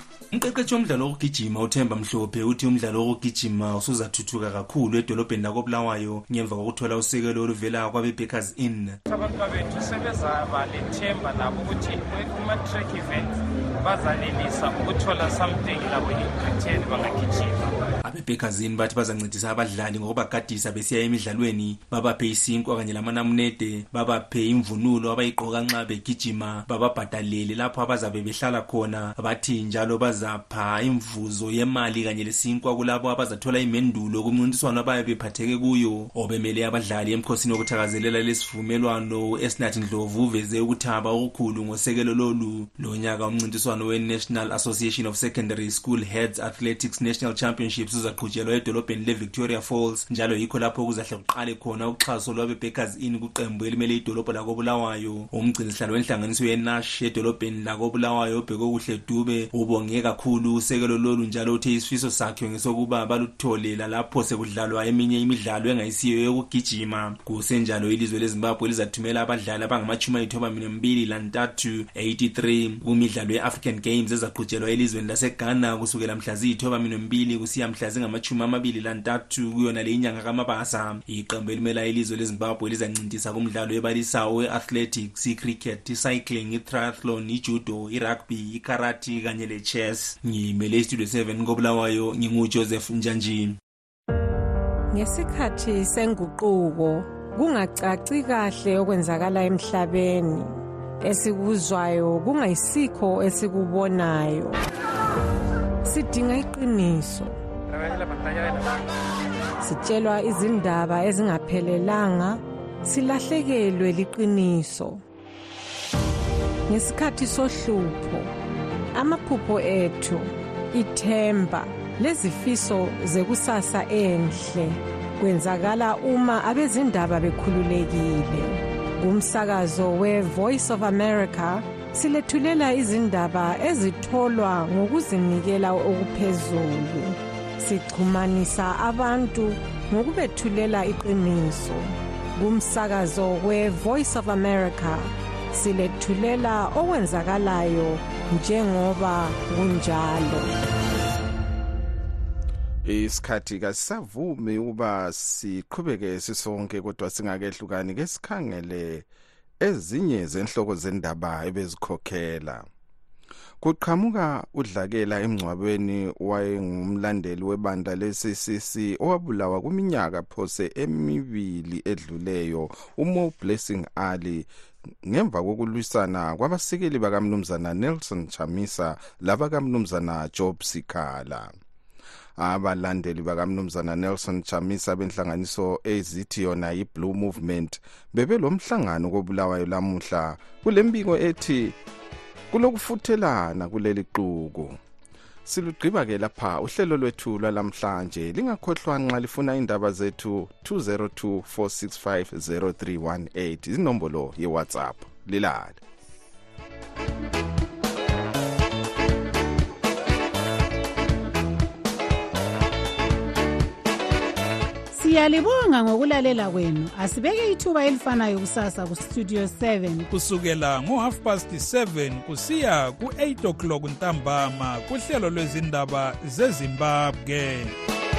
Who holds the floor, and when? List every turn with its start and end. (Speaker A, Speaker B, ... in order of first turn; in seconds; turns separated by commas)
Speaker A: 0.3-9.0, Speaker B: 9.1-17.7, Speaker A: 18.0-93.6, Speaker C: 94.9-104.6, Speaker C: 105.8-107.3, Speaker B: 107.8-108.6, Speaker C: 109.6-115.0, Speaker C: 116.7-118.3, Speaker C: 118.9-150.5, Speaker D: 152.8-159.1, Speaker D: 159.6-162.7, Speaker D: 163.6-174.5, Speaker D: 175.0-181.5, Speaker D: 182.4-191.8, Speaker D: 192.5-194.8, Speaker D: 195.4-205.8, Speaker E: 214.9-220.1, Speaker F: 220.1-227.7